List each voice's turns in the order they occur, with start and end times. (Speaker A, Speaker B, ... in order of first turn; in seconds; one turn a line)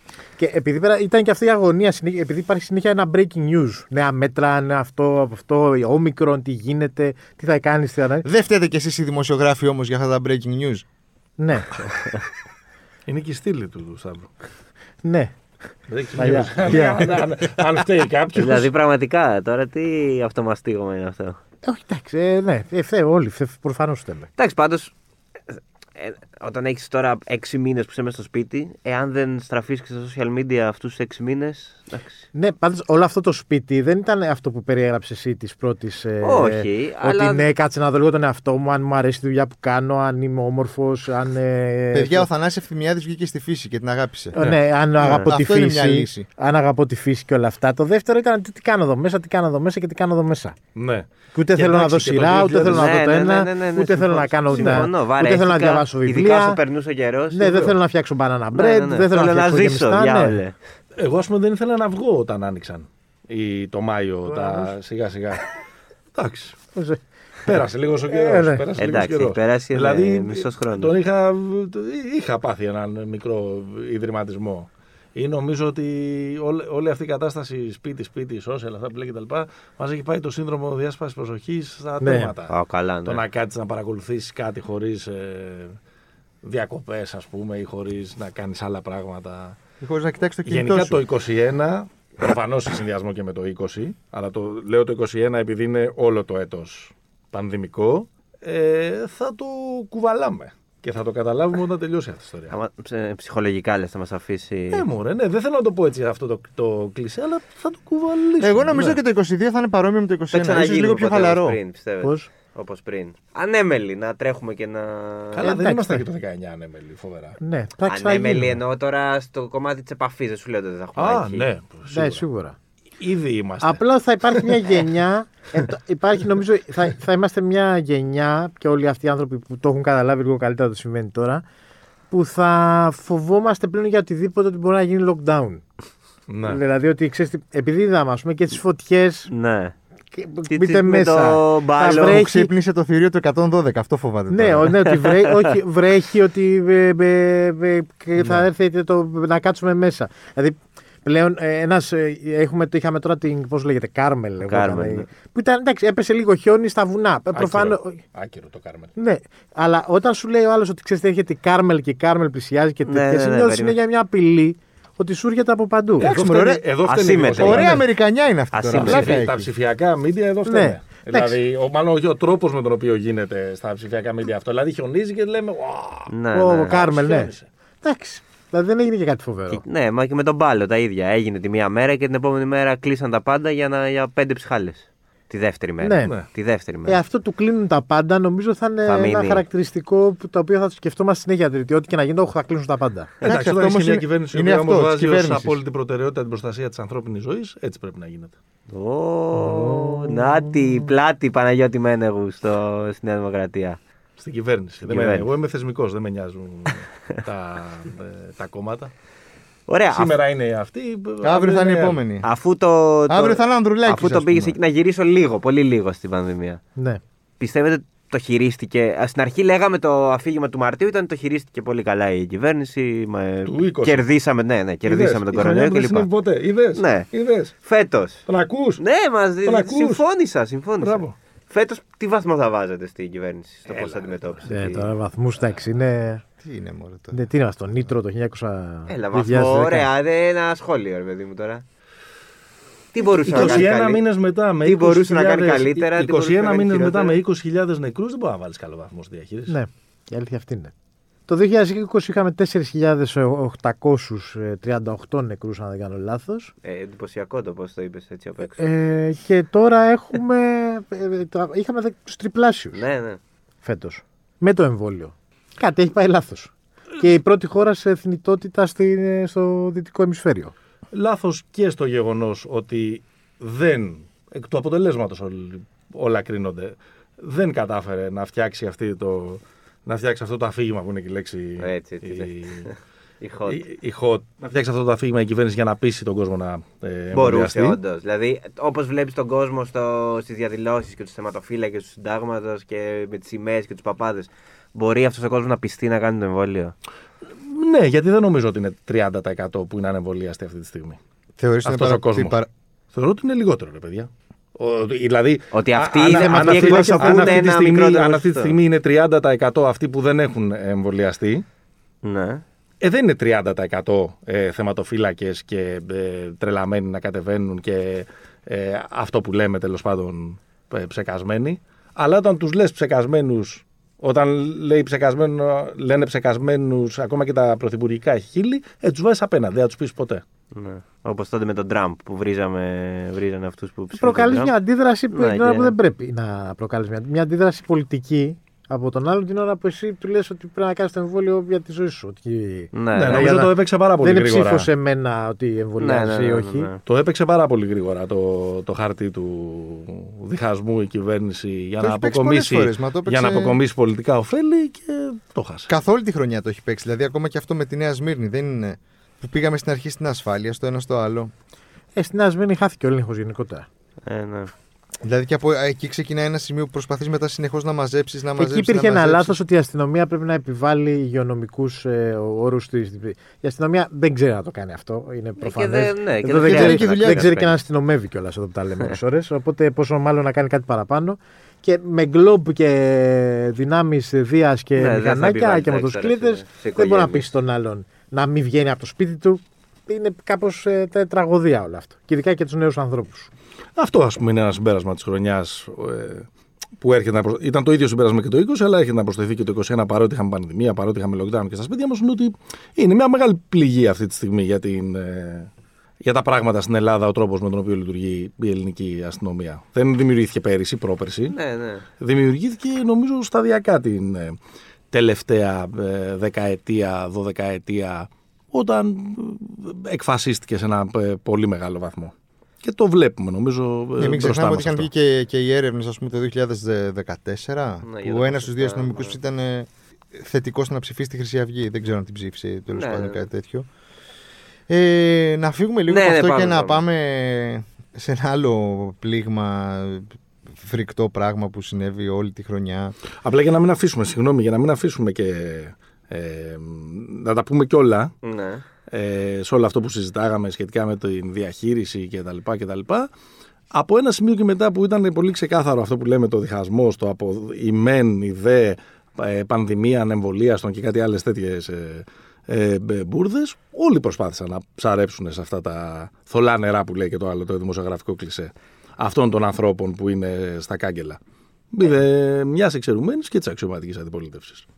Speaker A: 0.4-8.3
Speaker B: 8.2-10.8
Speaker A: 11.4-11.9
Speaker C: 13.1-14.3
Speaker A: 15.0-15.3
Speaker C: 15.9-18.7
Speaker A: 16.1-17.1
Speaker D: 18.3-21.4
Speaker A: 21.6-24.3
Speaker D: 24.4-24.9
Speaker D: 26.0-32.2
Speaker A: 32.3-42.3
Speaker D: 36.2-37.5
Speaker B: 41.9-44.4
Speaker A: 44.3-50.6
Speaker D: 45.0-45.3
Speaker B: 45.0-46.3
Speaker C: 50.8-52.9
Speaker A: 51.3-56.6
Speaker D: 52.6-57.8
Speaker C: 54.5-54.9
Speaker A: 57.3-60.4
Speaker D: 58.5-60.5
Speaker C: 61.0-65.5
Speaker A: 64.3-64.7
Speaker C: 66.1-66.6
Speaker A: 66.8-67.0
Speaker C: 67.5-82.5
Speaker A: 68.1-68.7
Speaker D: 68.8-70.9
Speaker A: 82.0-82.3
Speaker D: 82.5-83.2
Speaker C: 83.0-85.8
Speaker C: 86.4-89.6
Speaker B: 89.8-91.0
Speaker C: 90.5-102.5
Speaker D: 102.5-104.9
Speaker C: 104.7-109.0
Speaker B: 108.4-111.6
Speaker D: 110.3-115.5
Speaker A: 112.0-112.3
Speaker C: 115.3-117.4
Speaker A: 115.4-116.0
Speaker A: 117.4-118.6
Speaker D: 117.9-121.5
Speaker C: 121.0-122.2
Speaker A: 121.9-122.6
Speaker C: 123.0-123.8
Speaker A: 123.6-131.4
Speaker A: 132.1-135.6
Speaker C: 136.3-136.6
Speaker A: 136.5-139.3
Speaker D: 139.3-139.7
Speaker A: 140.1-142.5
Speaker D: 140.5-142.2
Speaker B: 141.9-144.7
Speaker A: 144.3-158.0
Speaker D: 144.9-145.5
Speaker C: 148.2-148.5
Speaker D: 154.5-155.1
Speaker C: 157.3-158.9
Speaker A: 159.0-166.1
Speaker D: 162.8-163.8
Speaker B: 166.0-166.6
Speaker C: 166.0-167.8
Speaker D: 166.9-167.8
Speaker B: 167.4-169.5
Speaker D: 168.5-169.2
Speaker C: 168.8-177.5
Speaker A: 170.5-171.4
Speaker D: 176.1-176.8
Speaker A: 176.3-179.6
Speaker D: 179.5-187.0
Speaker A: 185.8-186.2
Speaker A: 186.8-193.1
Speaker D: 188.8-189.4
Speaker B: 193.2-195.6
Speaker C: 193.2-198.3
Speaker D: 198.7-203.8
Speaker A: 199.4-200.9
Speaker C: 199.5-199.9
Speaker C: 204.2-208.9
Speaker D: 204.9-205.3
Speaker D: 209.7-210.2
Speaker C: 209.9-212.0
Speaker B: 211.2-212.3
Speaker D: 212.2-216.6
Speaker B: 213.1-214.6
Speaker A: 216.8-217.0
Speaker D: 217.4-226.1
Speaker C: 223.4-224.1
Speaker C: 224.9-227.5
Speaker D: 226.7-227.1
Speaker D: 227.6-228.3
Speaker C: 228.3-228.8
Speaker D: 228.8-234.9
Speaker C: 229.4-230.0
Speaker C: 230.8-231.2
Speaker C: 233.7-234.5
Speaker A: 234.5-236.2
Speaker B: 236.4-237.2
Speaker A: 237.1-239.9
Speaker D: 238.9-241.6
Speaker D: 242.9-244.1
Speaker C: 243.0-249.6
Speaker D: 244.6-247.2
Speaker A: 249.5-250.7
Speaker A: 251.3-256.5
Speaker D: 256.6-258.7
Speaker A: 258.5-262.8
Speaker D: 262.8-263.2
Speaker A: 263.6-270.5
Speaker C: 270.9-282.7
Speaker D: 281.6-283.6
Speaker C: 283.5-287.8
Speaker D: 287.1-296.7
Speaker C: 297.2-301.0
Speaker B: 301.4-302.5
Speaker C: 301.6-302.4
Speaker C: 302.9-311.4
Speaker D: 305.5-308.6
Speaker A: 306.0-307.5
Speaker D: 312.0-312.4
Speaker C: 312.8-330.2
Speaker D: 330.5-334.5
Speaker A: 333.9-346.7
Speaker D: 335.1-335.7
Speaker D: 342.7-343.4
Speaker C: 342.9-344.7
Speaker D: 345.8-346.8
Speaker C: 346.9-355.7
Speaker B: 351.8-353.6
Speaker B: 355.7-361.3
Speaker A: 361.9-363.7
Speaker D: 364.1-364.5
Speaker B: 365.0-369.4
Speaker A: 368.4-393.3
Speaker D: 375.4-377.6
Speaker B: 376.4-377.3
Speaker D: 384.8-387.3
Speaker C: 393.8-396.3
Speaker C: 396.8-405.5
Speaker C: 406.0-411.4
Speaker D: 411.3-411.9
Speaker C: 412.0-414.4
Speaker C: 414.9-424.9
Speaker B: 424.0-433.7
Speaker D: 427.9-429.2
Speaker D: 432.7-433.3
Speaker B: 434.7-442.9
Speaker D: 435.9-436.8
Speaker C: 443.2-448.1
Speaker D: 448.2-448.6
Speaker C: 448.9-453.1
Speaker C: 453.7-471.2
Speaker C: 471.7-474.6